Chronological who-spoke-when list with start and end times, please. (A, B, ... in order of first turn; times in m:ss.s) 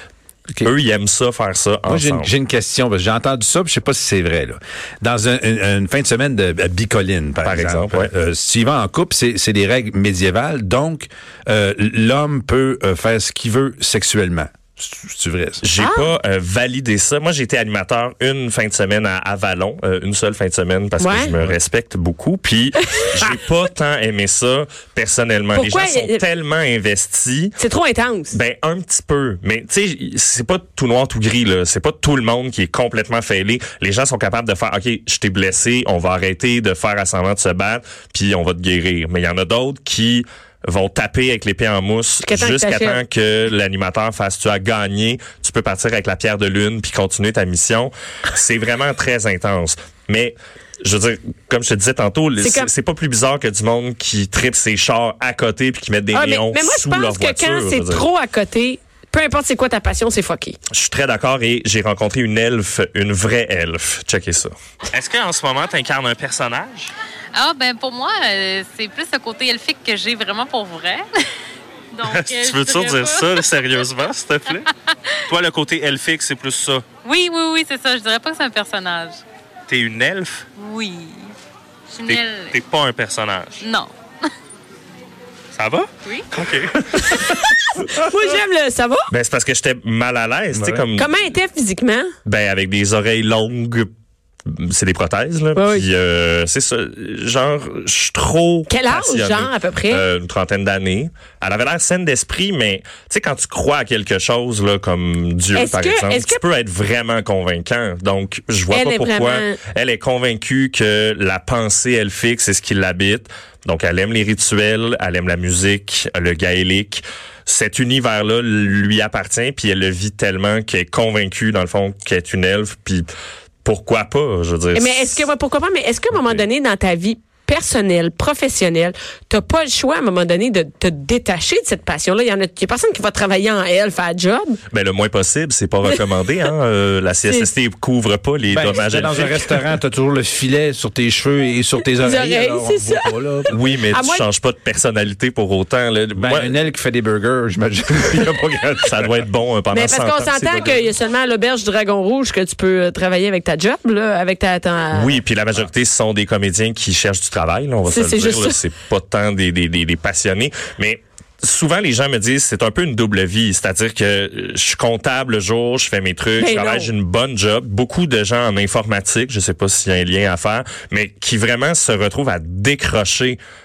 0:00.6-0:02.3 A
0:01.9-0:15.6 B
0:07.4-0:08.1 A
0:15.6-0:27.6 A
0:15.8-0:16.1 C
0:21.0-0:21.3 C
0:25.5-0:26.2 C
0:27.6-0:28.4 C
0:28.3-0:58.1 A
0:42.2-0:43.0 C
0:52.4-0:52.7 C
0:56.1-1:00.6 C
1:00.7-1:06.9 A
1:07.3-1:11.2 D
1:11.9-1:13.7 D
1:12.0-1:14.7 A
1:15.3-1:16.9 A
1:17.0-1:19.2 D
1:19.7-1:20.4 A
1:20.6-1:21.3 D
1:21.9-1:22.6 D
1:22.1-1:23.6 A
1:23.6-1:23.9 D
1:25.5-1:27.5 A
1:27.0-1:29.1 C
1:29.1-1:31.1 A
1:30.5-1:30.9 B
1:30.9-1:32.1 C
1:32.2-1:33.9 A
1:34.5-2:03.1 A
1:35.6-1:35.9 C
1:38.7-1:40.0 C
1:45.5-1:46.4 C
1:48.7-1:49.6 C
2:03.6-2:05.2 A
2:04.7-2:14.6 C
2:06.2-2:06.4 A
2:14.7-2:19.6 A
2:18.5-2:23.5 B
2:22.0-2:23.1 C
2:23.5-2:26.5 A
2:23.9-2:24.2 C
2:26.2-2:29.2 B
2:28.8-2:30.8 A
2:29.7-2:35.1 C
2:34.9-2:53.4 A
2:37.8-2:38.6 C
2:46.4-2:46.9 C